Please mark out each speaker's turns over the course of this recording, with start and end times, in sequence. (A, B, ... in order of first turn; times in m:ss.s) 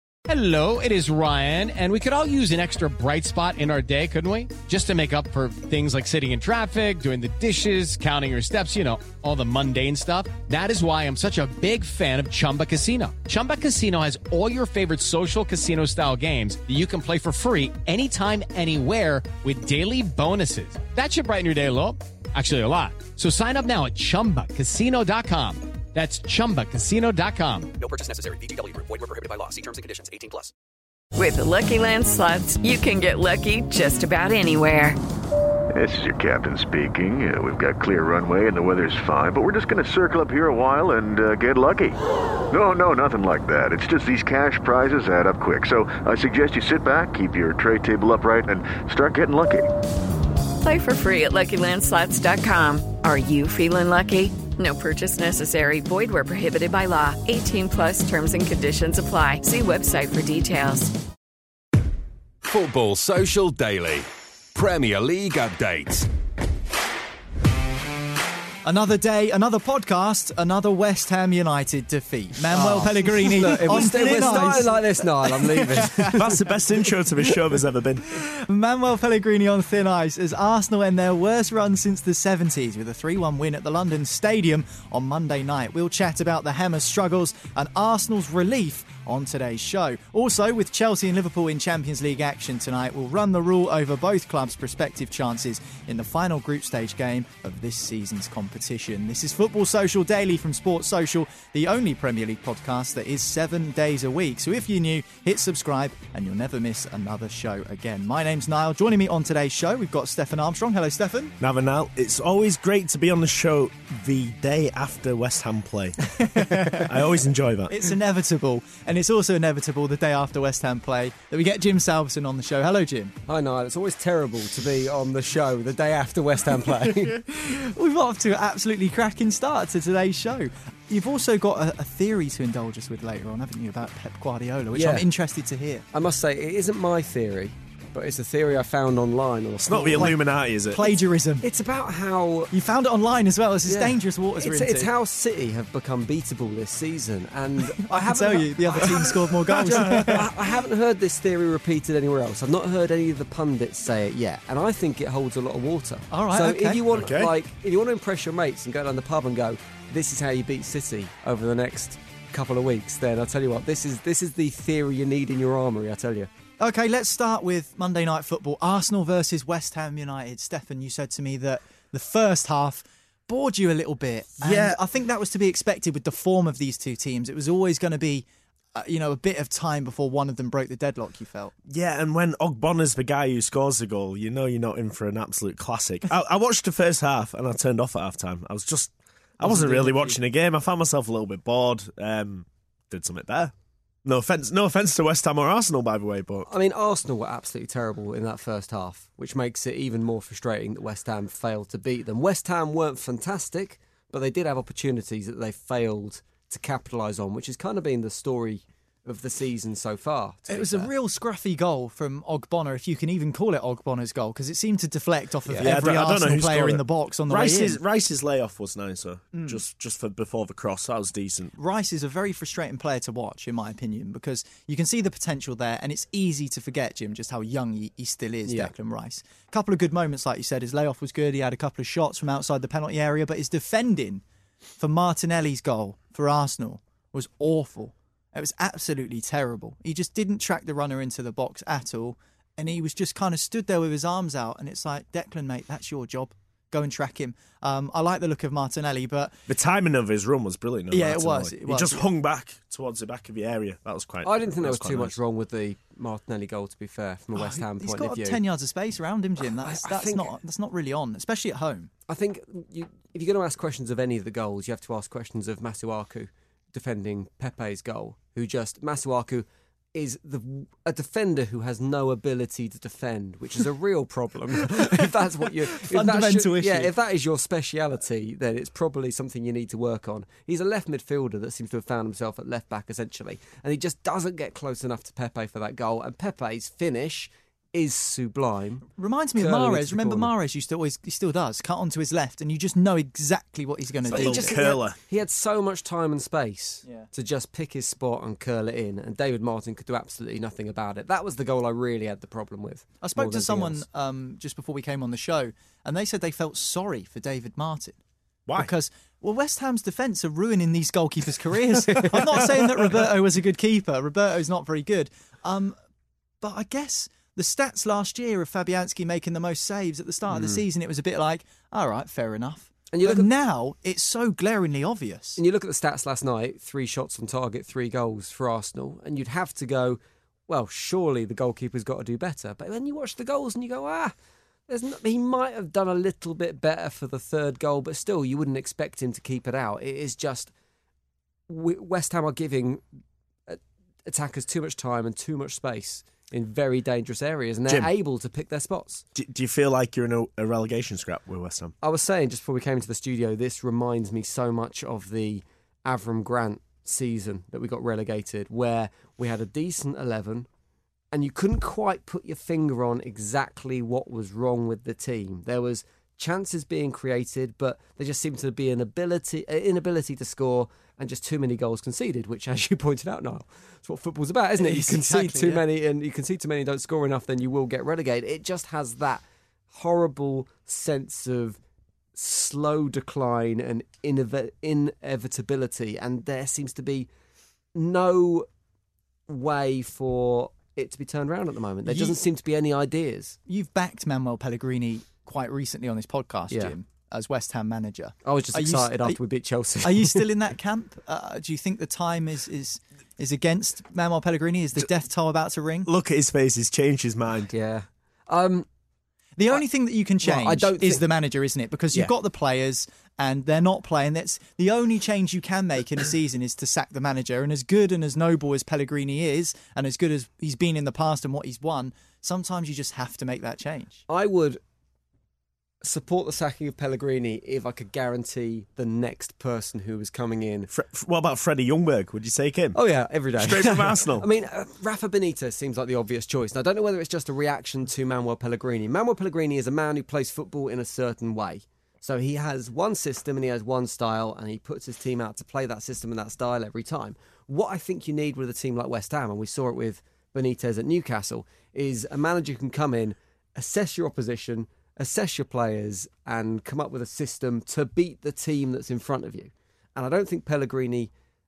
0:00.3-0:27.7 A
0:27.8-0:30.5 B
0:31.1-0:35.0 C
0:35.7-0:42.0 D
0:42.5-0:49.7 D
0:50.6-1:00.9 C
1:02.4-1:06.1 E
1:08.6-1:16.2 F
1:12.5-1:16.4 G
1:14.0-1:14.4 H
1:16.1-1:18.2 H
1:18.2-1:51.3 F
1:51.4-1:57.8 H
1:56.3-1:56.8 F
1:57.7-2:03.1 F
2:03.3-2:07.2 G
2:07.1-2:15.8 F
2:14.7-2:15.0 G
2:15.9-2:20.1 G
2:19.6-2:20.8 H
2:20.7-2:21.4 F
2:21.4-2:22.5 G
2:22.5-2:24.9 F
2:23.6-2:46.3 G
2:27.8-2:30.2 F
2:29.8-2:30.2 H
2:36.1-2:36.8 F
2:36.9-2:37.3 H
2:46.6-3:01.5 F
2:54.4-2:54.8 H
3:01.7-3:13.5 H
3:09.4-3:10.2 F
3:14.0-3:16.5 H
3:16.5-3:30.9 G
3:30.5-3:37.8 F
3:35.6-3:41.5 H
3:39.3-3:39.6 F
3:41.6-3:54.2 F
3:54.8-4:09.3 F
4:09.5-4:15.2 H
4:10.9-4:12.0 F
4:14.2-4:18.4 G
4:17.3-4:21.9 F
4:19.6-4:20.3 G
4:22.1-4:50.3 G
4:35.7-4:36.9 F
4:48.9-4:54.6 F
4:54.1-4:55.0 H
4:54.1-5:03.8 G
5:03.0-5:08.0 F
5:08.6-5:15.8 F
5:11.9-5:12.4 G
5:16.4-5:25.4 F
5:20.3-5:20.6 G
5:22.9-5:23.3 G
5:25.4-5:34.1 G
5:34.7-5:40.5 G
5:41.5-5:42.8 G
5:43.5-5:49.0 G
5:49.1-5:51.7 H
5:51.8-6:00.5 G
6:01.1-6:21.6 G
6:14.6-6:15.6 F
6:22.1-6:27.1 G
6:27.7-6:28.5 G
6:29.3-6:33.4 G
6:31.8-6:32.2 F
6:33.5-6:39.2 F
6:38.2-6:40.2 G
6:39.8-6:45.9 F
6:45.8-6:47.5 H
6:47.5-6:48.7 G
6:49.4-7:04.0 F
6:50.2-6:51.0 G
7:04.1-7:04.6 G
7:05.8-7:10.7 G
7:10.7-7:12.8 H
7:12.7-7:41.1 G
7:13.4-7:14.2 H